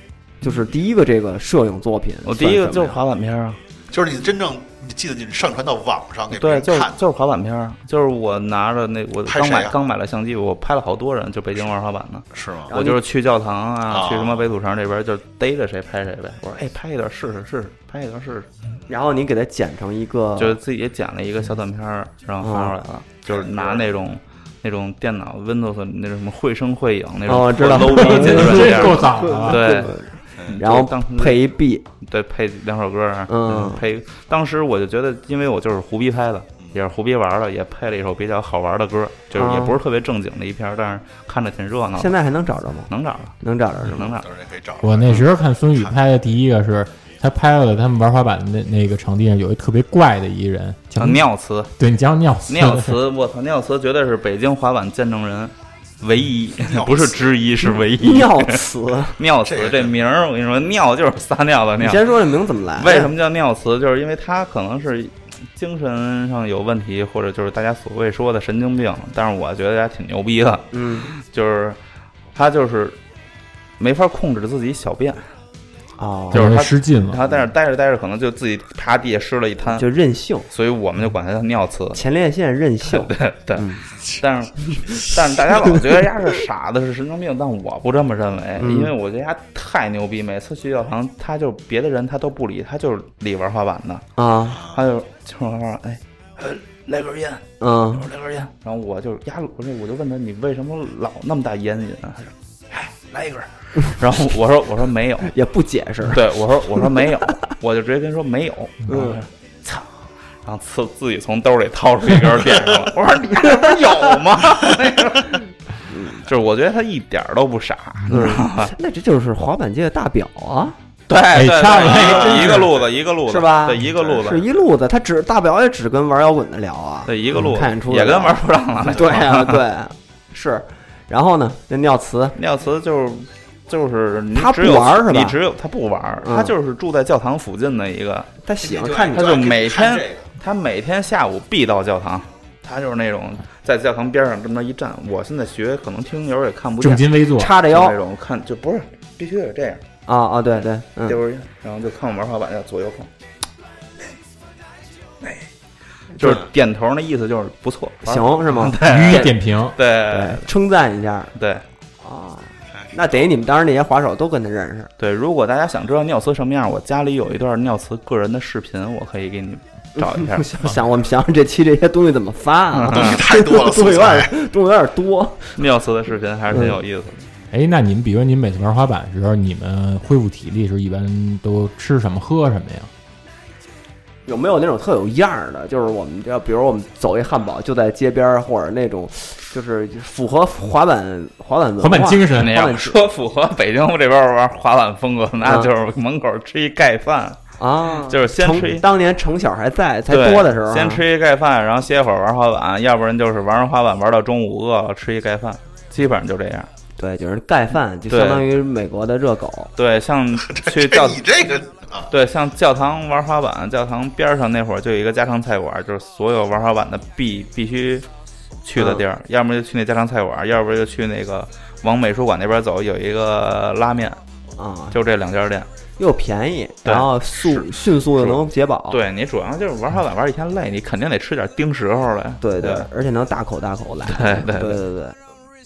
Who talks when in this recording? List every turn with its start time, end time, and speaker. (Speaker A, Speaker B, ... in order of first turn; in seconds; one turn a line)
Speaker A: 0.4-3.0
Speaker B: 2.3-3.6
Speaker C: 3.9-7.0
Speaker B: 6.3-18.5
Speaker C: 9.3-9.8
Speaker C: 12.3-12.7
Speaker A: 12.7-13.0
Speaker C: 13.9-14.5
Speaker A: 18.9-20.6
Speaker B: 20.4-29.9
Speaker A: 22.4-22.8
Speaker C: 23.3-23.9
Speaker A: 27.3-31.9
Speaker D: 27.9-29.9
Speaker B: 30.5-31.4
Speaker B: 32.0-42.1
Speaker A: 33.3-33.8
Speaker A: 39.3-39.8
Speaker A: 42.0-44.2
Speaker B: 42.9-44.3
Speaker C: 44.2-46.0
Speaker D: 44.8-51.2
Speaker B: 51.0-51.7
Speaker D: 51.8-53.0
Speaker B: 52.5-58.6
Speaker C: 56.6-57.3
Speaker A: 57.7-59.2
Speaker B: 59.2-62.1
Speaker C: 59.4-60.0
Speaker A: 61.8-63.1
Speaker B: 62.8-71.8
Speaker A: 70.7-71.1
Speaker B: 72.3-73.0
Speaker B: 73.8-75.3
Speaker A: 76.0-76.6
Speaker D: 76.3-77.2
Speaker B: 76.3-79.8
Speaker A: 79.7-80.5
Speaker B: 80.5-82.0
Speaker A: 81.9-83.8
Speaker B: 82.8-94.0
Speaker A: 88.6-88.9
Speaker A: 94.2-94.6
Speaker C: 94.5-94.8
Speaker B: 94.7-105.3
Speaker A: 97.6-98.1
Speaker A: 105.2-106.2
Speaker B: 106.1-109.9
Speaker A: 108.9-109.2
Speaker B: 110.4-115.5
Speaker A: 115.9-116.2
Speaker B: 116.3-118.7
Speaker A: 118.1-120.8
Speaker B: 121.1-124.5
Speaker D: 121.3-122.7
Speaker A: 121.9-122.6
Speaker C: 122.0-122.7
Speaker A: 123.3-132.4
Speaker C: 123.9-124.4
Speaker B: 127.1-129.6
Speaker B: 132.4-138.3
Speaker A: 134.3-135.4
Speaker A: 136.2-136.5
Speaker A: 138.4-139.3
Speaker C: 138.6-140.2
Speaker B: 139.1-149.8
Speaker D: 146.8-147.6
Speaker A: 147.4-148.0
Speaker A: 150.1-151.2
Speaker B: 151.1-153.1
Speaker B: 156.2-160.4
Speaker C: 156.2-156.5
Speaker A: 158.0-159.3
Speaker D: 158.8-159.8
Speaker A: 160.1-161.3
Speaker B: 161.4-161.6
Speaker A: 162.0-164.9
Speaker C: 162.8-163.2
Speaker B: 165.0-170.4
Speaker A: 170.0-175.6
Speaker B: 172.8-173.2
Speaker C: 172.9-174.3
Speaker B: 175.6-177.3
Speaker A: 176.5-176.8
Speaker D: 177.5-182.9
Speaker A: 184.3-193.0
Speaker D: 191.8-192.6
Speaker B: 192.4-197.4
Speaker A: 195.4-195.7
Speaker A: 197.6-201.0
Speaker B: 198.0-198.8
Speaker B: 200.1-206.7
Speaker A: 207.0-209.7
Speaker B: 208.1-208.5
Speaker B: 209.8-211.3
Speaker C: 210.4-212.1
Speaker B: 212.1-218.1
Speaker B: 218.6-224.2
Speaker A: 218.8-219.0
Speaker A: 224.6-225.0
Speaker B: 224.9-225.7
Speaker A: 226.0-229.0
Speaker B: 226.8-232.9
Speaker A: 232.4-235.2
Speaker B: 234.1-234.8